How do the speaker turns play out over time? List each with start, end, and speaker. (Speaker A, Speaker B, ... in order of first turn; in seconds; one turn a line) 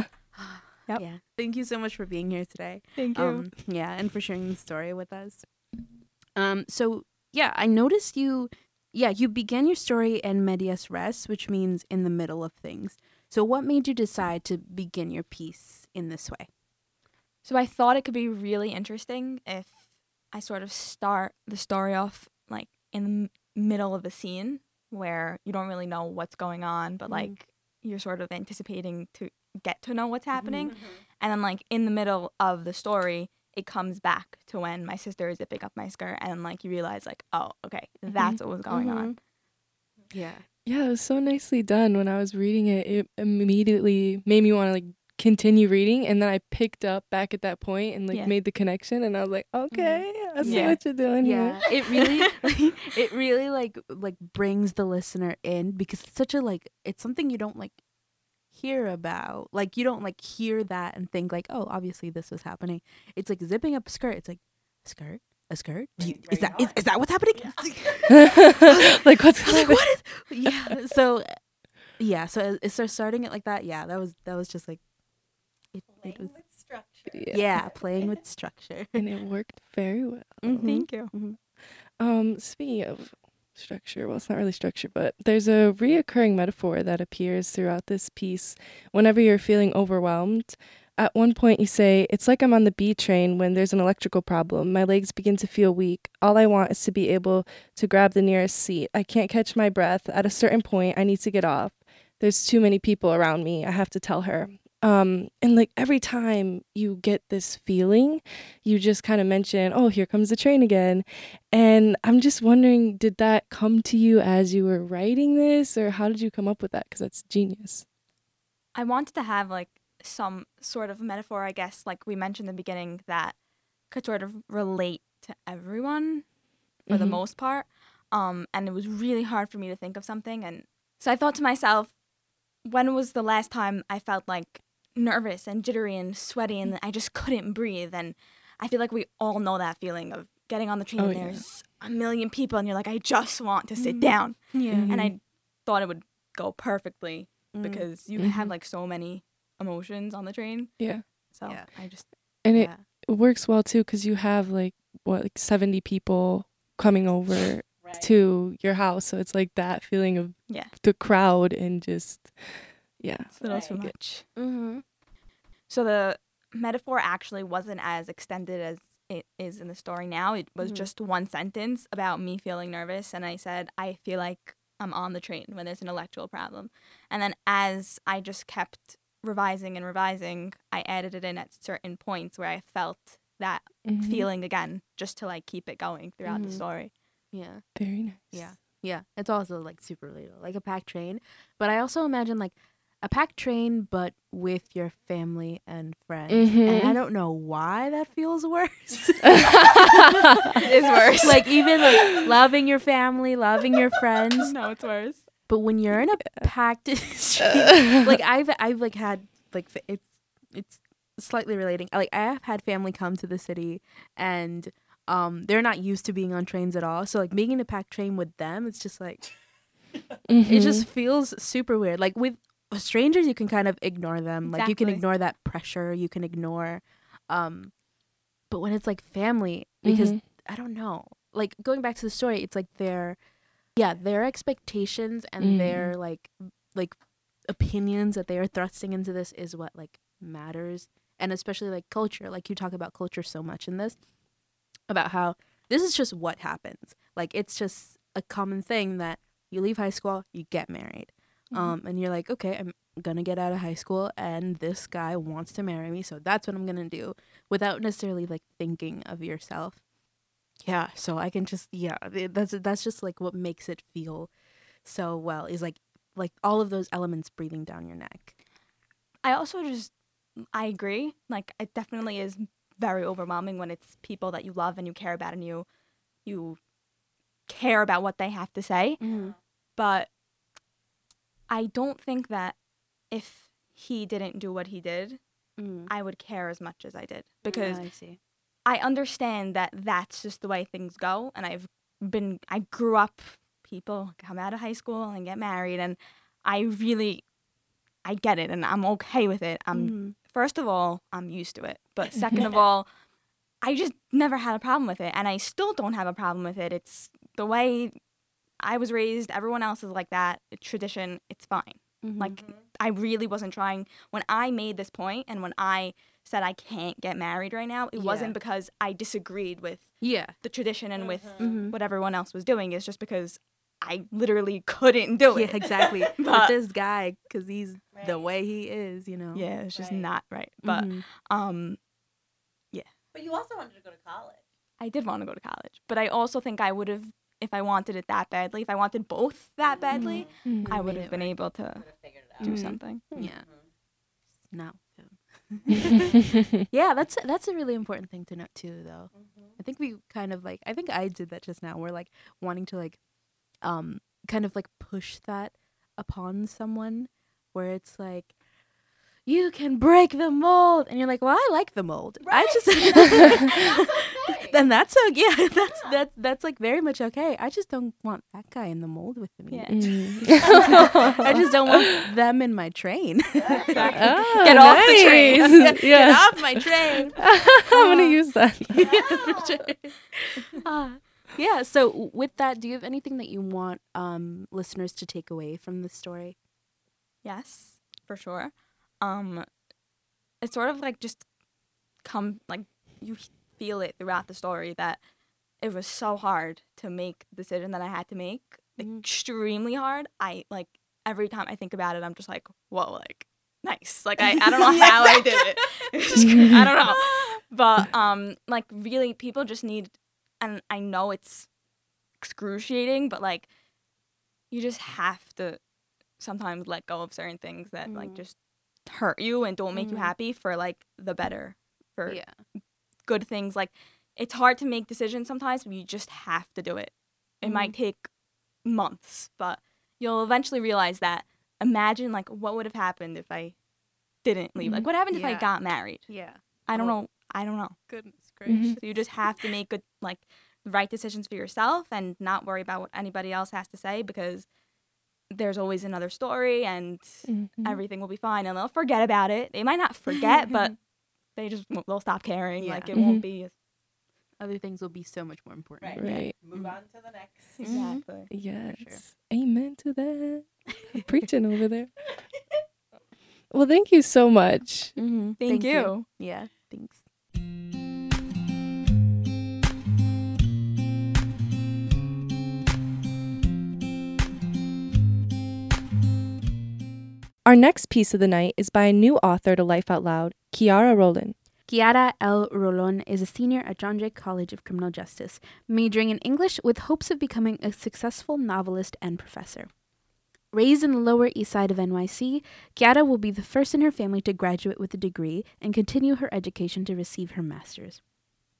Speaker A: 0.3-5.7
Speaker B: 3.0-3.5
Speaker A: 6.3-16.5
Speaker B: 17.4-39.1
Speaker A: 27.1-27.4
Speaker A: 30.3-30.6
Speaker C: 30.7-31.0
Speaker A: 38.6-39.2
Speaker A: 40.1-40.4
Speaker D: 40.6-51.6
Speaker A: 49.7-57.8
Speaker B: 50.4-50.8
Speaker A: 58.5-71.4
Speaker C: 66.0-68.3
Speaker D: 68.2-70.0
Speaker A: 72.0-74.8
Speaker A: 75.7-76.5
Speaker C: 75.9-78.3
Speaker A: 77.3-79.0
Speaker D: 79.0-81.0
Speaker A: 80.4-81.4
Speaker B: 80.7-81.1
Speaker D: 82.0-117.8
Speaker B: 118.7-123.3
Speaker B: 123.9-126.2
Speaker B: 126.9-131.9
Speaker D: 126.9-127.2
Speaker B: 132.6-152.6
Speaker D: 141.0-141.4
Speaker A: 143.8-145.1
Speaker D: 144.7-145.0
Speaker A: 147.5-147.9
Speaker D: 148.2-148.5
Speaker D: 150.8-151.1
Speaker A: 151.4-152.9
Speaker D: 152.4-163.9
Speaker C: 157.7-158.1
Speaker B: 160.5-160.7
Speaker C: 163.4-163.8
Speaker B: 163.4-164.3
Speaker A: 164.3-164.8
Speaker B: 165.7-186.9
Speaker A: 170.6-170.9
Speaker D: 183.8-184.3
Speaker A: 186.2-186.7
Speaker A: 187.3-187.7
Speaker D: 187.7-188.5
Speaker A: 188.3-200.7
Speaker D: 196.3-197.0
Speaker B: 200.6-202.2
Speaker A: 201.2-204.5
Speaker B: 204.3-205.2
Speaker A: 205.5-219.3
Speaker D: 220.2-220.9
Speaker A: 220.4-227.7
Speaker C: 224.4-225.0
Speaker A: 228.5-233.2
Speaker D: 229.8-230.3
Speaker A: 233.8-244.0
Speaker D: 235.4-236.0
Speaker A: 244.9-259.8
Speaker D: 251.5-251.8
Speaker A: 260.6-264.3
Speaker A: 264.8-268.3
Speaker B: 269.2-269.9
Speaker B: 270.5-275.6
Speaker B: 276.2-276.6
Speaker B: 277.5-279.0
Speaker A: 279.0-279.3
Speaker C: 279.0-279.4
Speaker B: 279.8-280.1
Speaker B: 281.5-282.6
Speaker B: 283.1-285.2
Speaker A: 285.6-285.9
Speaker B: 285.9-287.9
Speaker A: 287.4-288.2
Speaker C: 287.4-287.8
Speaker B: 288.6-297.2
Speaker B: 298.0-302.9
Speaker A: 299.7-300.1
Speaker B: 303.6-307.9
Speaker B: 308.6-326.5
Speaker A: 312.0-312.4
Speaker C: 312.4-312.6
Speaker A: 317.9-318.3
Speaker A: 320.0-320.4
Speaker C: 321.0-321.6
Speaker A: 321.4-321.8
Speaker A: 325.3-329.5
Speaker C: 327.9-328.4
Speaker B: 329.3-331.8
Speaker C: 329.7-330.1
Speaker A: 330.6-331.0
Speaker C: 333.1-334.4
Speaker B: 334.8-343.1
Speaker C: 339.7-343.7
Speaker A: 339.9-341.3
Speaker D: 340.4-340.7
Speaker A: 342.4-343.5
Speaker A: 344.5-346.0
Speaker C: 345.6-346.2
Speaker A: 346.7-353.0
Speaker C: 349.1-349.6
Speaker A: 353.6-358.3
Speaker A: 359.2-378.2
Speaker C: 362.2-364.7
Speaker C: 365.5-366.0
Speaker B: 369.5-370.4
Speaker D: 369.7-372.0
Speaker C: 373.4-374.2
Speaker B: 373.6-375.5
Speaker D: 373.9-379.0
Speaker A: 378.7-386.4
Speaker C: 378.7-379.7
Speaker B: 387.2-389.5
Speaker B: 390.4-391.2
Speaker B: 392.0-395.0
Speaker B: 395.6-411.5
Speaker A: 398.8-399.1
Speaker A: 404.3-405.3
Speaker D: 406.3-406.6
Speaker B: 412.2-413.5
Speaker B: 414.5-415.6
Speaker B: 416.2-418.3
Speaker A: 417.8-418.2
Speaker B: 418.9-422.2
Speaker A: 419.7-420.1
Speaker A: 422.1-422.4
Speaker B: 423.1-428.1
Speaker A: 427.4-427.8
Speaker B: 428.6-433.5
Speaker B: 434.2-436.1
Speaker A: 434.6-435.5
Speaker A: 436.1-437.0
Speaker B: 436.6-437.8
Speaker A: 437.9-439.1
Speaker D: 438.4-438.8
Speaker B: 438.8-444.5
Speaker B: 445.3-450.8
Speaker D: 447.3-447.8
Speaker B: 451.4-453.5
Speaker A: 452.6-453.2
Speaker D: 452.9-453.2
Speaker A: 454.4-456.8
Speaker C: 455.8-458.2
Speaker D: 456.0-456.4
Speaker A: 457.6-459.0
Speaker B: 457.6-458.3
Speaker D: 458.3-461.9
Speaker D: 463.5-465.0
Speaker A: 464.9-467.0
Speaker B: 465.4-466.1
Speaker D: 477.4-481.4
Speaker A: 481.7-489.7
Speaker A: 490.5-498.0